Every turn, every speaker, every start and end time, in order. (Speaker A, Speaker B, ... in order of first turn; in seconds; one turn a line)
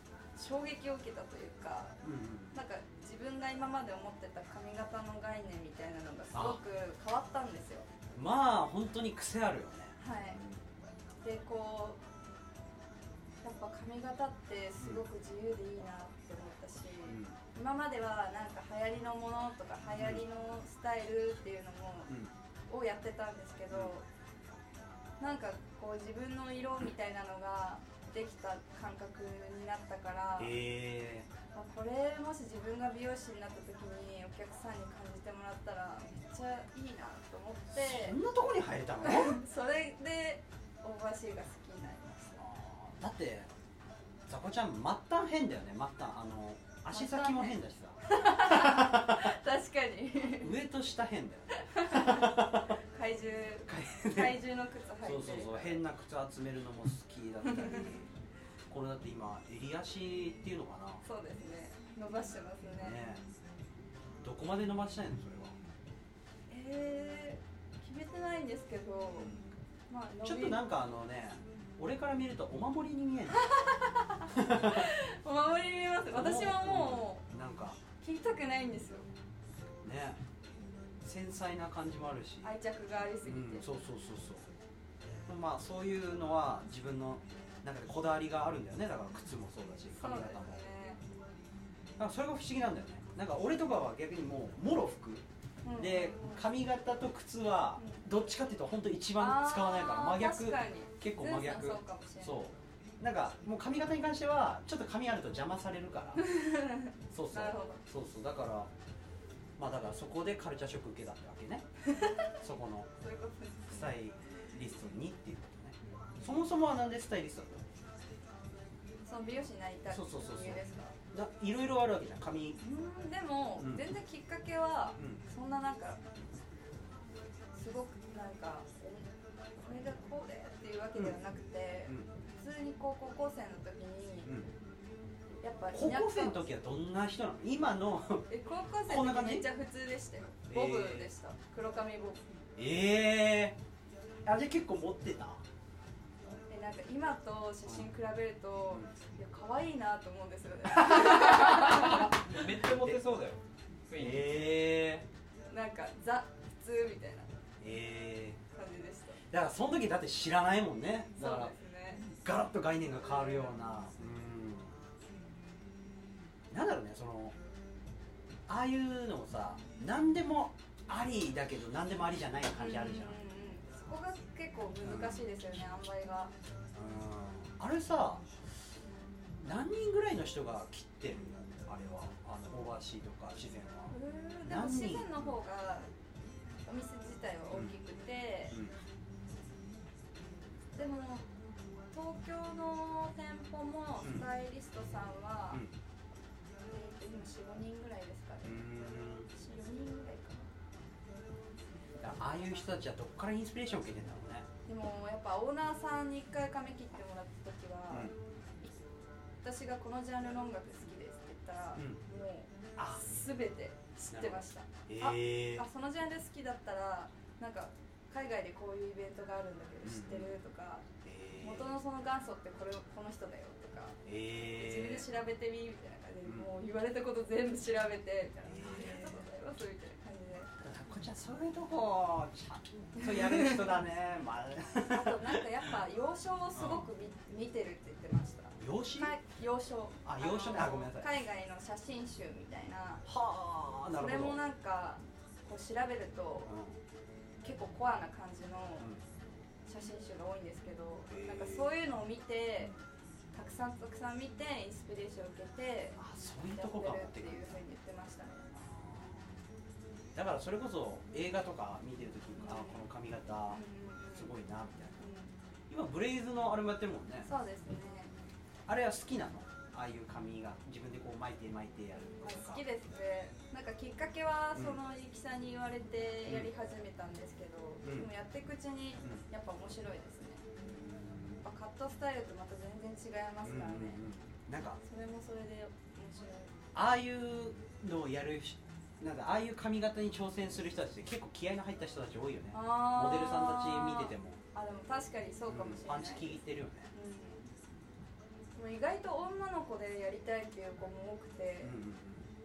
Speaker A: 0.4-2.0
Speaker B: 2.0-2.6
Speaker A: 2.5-7.9
Speaker B: 6.3-6.6
Speaker B: 8.1-10.6
Speaker A: 10.0-10.4
Speaker A: 11.2-12.0
Speaker A: 13.4-22.1
Speaker B: 17.1-17.4
Speaker B: 19.9-20.2
Speaker A: 22.7-24.0
Speaker A: 25.2-30.6
Speaker B: 30.4-31.3
Speaker A: 31.5-38.2
Speaker B: 37.7-39.4
Speaker A: 39.0-42.4
Speaker B: 42.4-43.5
Speaker B: 44.3-49.3
Speaker A: 46.9-50.6
Speaker B: 50.3-52.8
Speaker A: 51.5-55.8
Speaker B: 53.7-54.4
Speaker B: 55.0-58.1
Speaker A: 57.4-57.9
Speaker B: 58.7-61.0
Speaker A: 61.0-63.0
Speaker B: 62.8-63.2
Speaker B: 64.2-65.5
Speaker A: 66.5-69.3
Speaker B: 69.2-69.5
Speaker A: 69.9-70.6
Speaker B: 70.2-73.4
Speaker A: 73.3-77.2
Speaker B: 74.3-74.9
Speaker B: 76.1-77.8
Speaker A: 78.0-79.1
Speaker B: 79.8-80.2
Speaker B: 81.0-82.5
Speaker A: 82.4-83.7
Speaker B: 83.2-84.5
Speaker B: 85.3-90.6
Speaker A: 90.0-91.0
Speaker B: 92.0-106.3
Speaker A: 95.6-96.4
Speaker A: 97.8-98.0
Speaker A: 99.2-102.4
Speaker A: 106.2-107.8
Speaker B: 107.1-108.7
Speaker B: 109.6-111.7
Speaker A: 111.9-112.3
Speaker B: 112.3-112.9
Speaker A: 113.0-113.9
Speaker B: 113.7-117.6
Speaker A: 119.1-121.0
Speaker B: 119.9-122.6
Speaker A: 122.6-126.0
Speaker B: 123.6-123.9
Speaker A: 127.5-134.3
Speaker B: 134.2-134.5
Speaker A: 135.4-136.5
Speaker B: 135.7-138.3
Speaker A: 138.3-142.2
Speaker B: 138.9-139.5
Speaker B: 140.5-141.1
Speaker B: 142.6-143.6
Speaker B: 144.2-145.4
Speaker A: 146.5-152.1
Speaker B: 150.8-153.0
Speaker C: 152.2-154.3
Speaker B: 153.9-155.1
Speaker A: 155.5-157.3
Speaker B: 157.6-158.4
Speaker A: 158.5-159.2
Speaker B: 159.3-164.8
Speaker A: 161.2-162.0
Speaker A: 163.0-163.6
Speaker B: 166.5-167.3
Speaker B: 168.5-173.2
Speaker A: 172.6-176.3
Speaker B: 174.8-175.3
Speaker B: 176.7-178.3
Speaker B: 179.4-185.4
Speaker A: 183.9-185.9
Speaker A: 186.7-188.6
Speaker B: 187.5-187.8
Speaker B: 188.5-188.8
Speaker A: 190.8-191.3
Speaker A: 191.9-195.6
Speaker A: 196.7-198.8
Speaker B: 198.4-199.3
Speaker A: 199.3-200.5
Speaker B: 202.0-204.5
Speaker A: 204.7-208.7
Speaker B: 207.9-208.2
Speaker A: 209.4-220.9
Speaker B: 211.8-212.0
Speaker B: 212.8-213.0
Speaker B: 214.1-215.7
Speaker B: 219.8-220.3
Speaker B: 221.0-221.8
Speaker A: 221.4-224.0
Speaker B: 224.1-225.1
Speaker A: 224.6-230.5
Speaker B: 228.4-229.2
Speaker B: 230.6-235.7
Speaker A: 233.0-233.7
Speaker A: 234.8-243.0
Speaker B: 236.6-236.9
Speaker B: 238.6-239.2
Speaker B: 240.0-241.1
Speaker B: 243.1-244.4
Speaker A: 243.9-246.5
Speaker B: 246.5-246.8
Speaker A: 247.4-248.9
Speaker A: 249.7-252.7
Speaker B: 251.1-251.7
Speaker A: 253.3-256.0
Speaker B: 256.0-257.6
Speaker A: 256.5-258.7
Speaker B: 258.6-259.3
Speaker B: 260.1-263.6
Speaker A: 262.4-262.8
Speaker A: 263.5-264.3
Speaker B: 264.1-265.0
Speaker A: 265.0-265.3
Speaker B: 265.7-267.3
Speaker A: 267.2-268.1
Speaker B: 268.7-272.6
Speaker A: 272.2-280.5
Speaker B: 277.8-278.1
Speaker B: 280.7-281.4
Speaker A: 281.4-284.0
Speaker B: 283.4-284.8
Speaker A: 284.8-286.5
Speaker B: 286.7-294.4
Speaker A: 292.5-296.4
Speaker B: 295.5-296.9
Speaker A: 296.9-297.5
Speaker A: 298.6-301.8
Speaker B: 301.6-302.2